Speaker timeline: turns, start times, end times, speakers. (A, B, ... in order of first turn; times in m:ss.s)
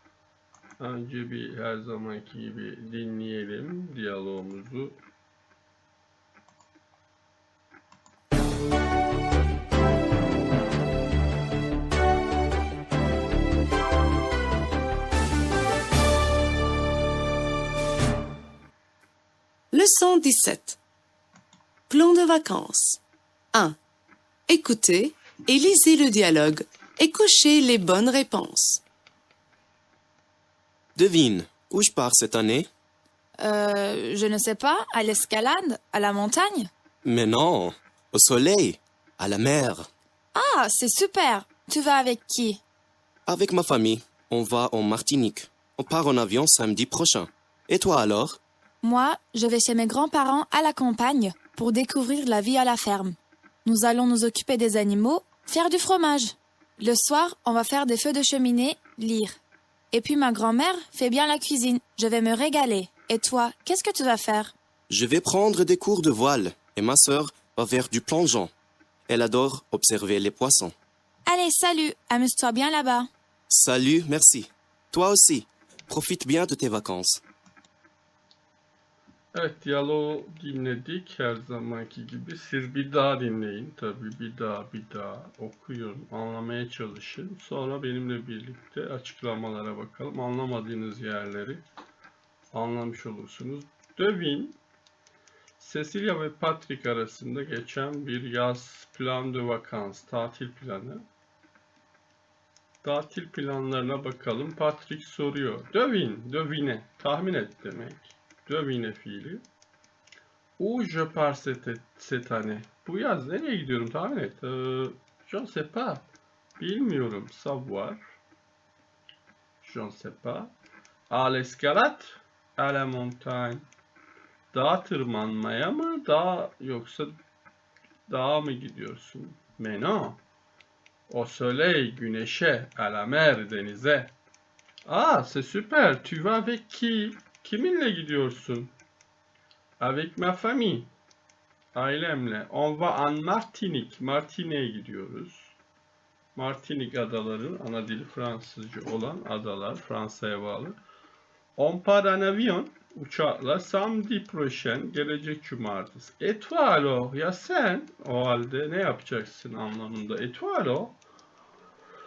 0:00.8-0:05.0 A
0:19.7-0:20.8 B
0:21.9-0:23.0 B
0:24.5-0:28.8 B
0:31.0-0:32.7 C
0:33.4-0:36.7 D
0:37.0-0:39.9 C
0:40.3-0:42.6 D
0:43.2-0:48.4 C
0:48.8-0:59.4 D
0:59.9-1:04.5 D
1:04.9-1:08.5 C
1:09.1-1:10.7 C
1:11.3-1:13.1 D
1:13.5-1:17.2 C
1:19.3-1:31.6 A
1:32.5-1:34.6 A
1:35.6-1:41.0 A
1:42.8-1:49.4 A
1:50.6-1:56.0 A
1:56.6-1:58.0 A
1:59.6-2:00.5 A
2:01.1-2:03.6 A
2:04.5-2:07.1 A
2:08.1-2:10.2 A
2:11.1-2:14.1 A
2:14.8-2:18.7 A
2:19.8-2:20.9 A
2:21.7-2:25.5 A
2:26.3-2:30.7 A
2:31.6-2:40.9 A